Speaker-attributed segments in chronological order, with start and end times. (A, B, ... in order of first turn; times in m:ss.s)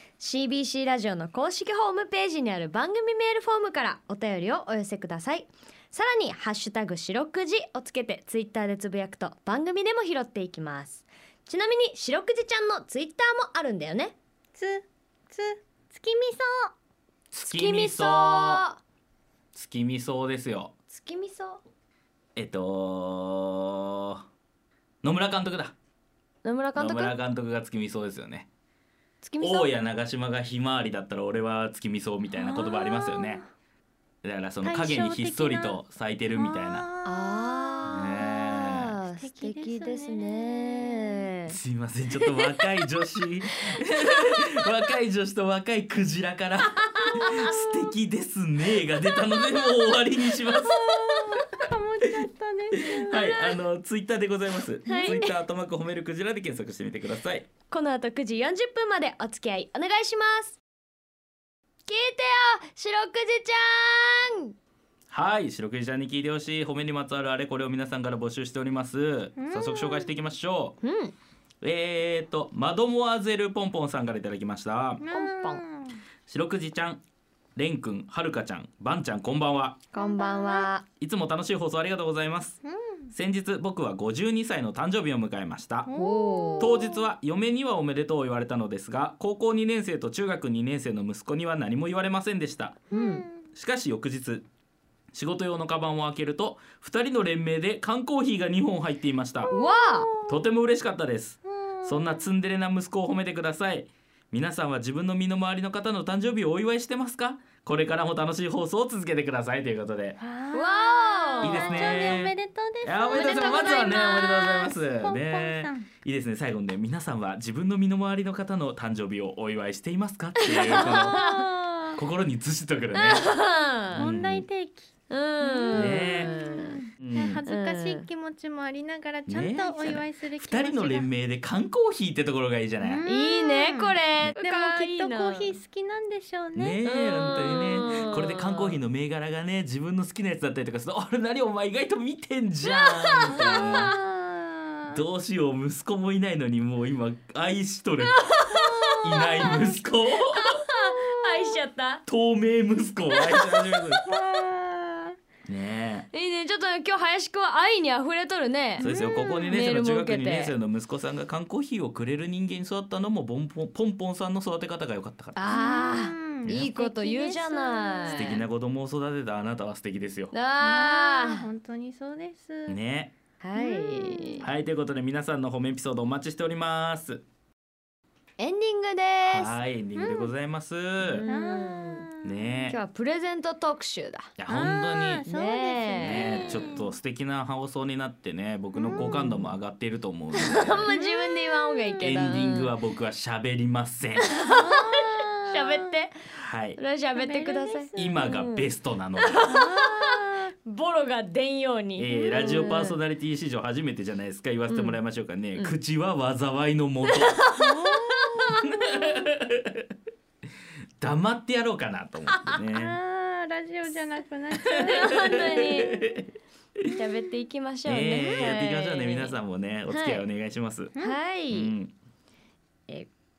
0:00.2-0:14.1 A
0:14.5-0:16.7 B
0:17.3-0:18.6 C
0:17.4-0:18.8 A
0:19.5-0:20.7 C
0:20.9-0:21.6 A
0:22.4-0:24.2 C
0:25.0-0:25.7 C
0:26.4-0:27.2 A
0:26.8-0:28.5 C
0:29.2-0:29.7 A
0:29.4-0:33.4 C
0:32.3-0:33.5 B
0:34.2-0:36.8 C
0:34.6-0:35.8 B
0:36.3-0:37.8 B
0:37.0-0:41.6 A
0:37.9-0:38.9 C
0:39.2-0:41.3 B
0:41.5-0:51.3 C
0:42.1-0:42.7 A
0:43.5-0:44.4 A
0:47.0-0:47.4 A
0:49.1-0:49.9 A
0:50.6-0:53.3 B
0:52.8-0:57.5 C
0:53.1-0:53.6 A
0:54.8-0:55.2 B
0:54.9-0:55.4 A
0:57.7-1:00.6 A
1:01.8-1:04.5 A
1:05.1-1:10.8 C
1:09.4-1:10.1 B
1:10.8-1:11.1 A
1:11.6-1:15.0 C
1:15.0-1:16.0 B
1:15.1-1:15.6 A
1:16.3-1:17.0 C
1:17.6-1:19.8 C
1:19.9-1:20.8 A
1:20.0-1:20.7 B
1:21.0-1:22.6 C
1:22.6-1:23.1 B
1:23.1-1:25.9 C
1:25.8-1:27.1 B
1:25.9-1:26.9 A
1:26.6-1:32.8 C
1:32.9-1:33.2 A
1:32.9-1:33.4 B
1:33.5-1:34.4 C
1:35.1-1:39.5 C
1:39.5-1:40.4 B
1:39.5-1:40.1 A
1:40.3-1:50.2 C
1:41.6-1:42.2 B
1:50.2-1:55.9 B
1:50.5-1:52.2 A
1:51.4-2:01.2 C
2:00.4-2:01.4 A
2:00.7-2:02.0 B
2:02.0-2:03.2 C
2:02.9-2:04.1 A
2:03.9-2:04.4 C
2:04.0-2:11.1 B
2:05.1-2:06.8 A
2:05.7-2:06.3 C
2:07.0-2:07.4 C
2:07.4-2:08.1 A
2:09.3-2:13.0 C
2:12.8-2:17.8 B
2:13.0-2:15.6 A
2:16.5-2:23.9 C
2:16.8-2:18.8 A
2:22.6-2:24.0 A
2:23.3-2:25.0 B
2:24.9-2:28.2 C
2:28.0-2:29.7 A
2:28.5-2:29.7 B
2:29.0-2:30.4 C
2:30.3-2:32.0 A
2:30.8-2:31.6 B
2:32.1-2:34.0 C
2:33.1-2:34.2 A
2:34.1-2:35.2 B
2:35.4-2:36.1 C
2:36.1-2:38.9 A
2:38.8-2:39.6 B
2:38.8-2:45.4 C
2:39.4-2:40.5 A
2:45.3-2:48.4 A
2:45.4-2:48.4 B
2:48.1-2:50.3 C
2:50.3-2:51.4 A
2:50.6-2:52.8 B
2:52.7-2:53.1 C
2:53.4-2:54.5 A
2:53.5-2:54.5 B
2:54.4-2:57.2 C
2:58.4-2:59.6 A
2:59.2-3:01.2 C
3:00.0-3:00.3 B
3:01.0-3:02.0 A
3:01.2-3:02.7 B
3:02.2-3:02.8 C
3:02.7-3:04.3 A
3:04.4-3:05.2 C
3:04.5-3:06.9 B
3:05.2-3:06.8 A
3:06.0-3:10.9 C
3:08.7-3:09.1 B
3:08.9-3:09.5 A
3:10.3-3:12.7 A
3:10.9-3:12.1 B
3:12.0-3:14.2 C
3:14.2-3:16.2 A
3:14.4-3:15.9 B
3:16.3-3:16.8 C
3:16.8-3:23.0 A
3:17.1-3:18.3 B
3:18.0-3:19.5 C
3:19.4-3:20.5 B
3:22.0-3:27.3 C
3:22.1-3:22.7 B
3:24.7-3:25.0 A
3:27.1-3:28.7 A
3:27.6-3:29.0 B
3:28.8-3:29.9 C
3:31.0-3:33.0 C
3:32.7-3:36.0 B
3:34.7-3:35.0 C
3:34.8-3:36.1 A
3:36.9-3:39.4 A
3:37.8-3:40.9 C
3:39.9-3:40.2 A
3:41.0-3:41.7 A
3:41.5-3:41.9 C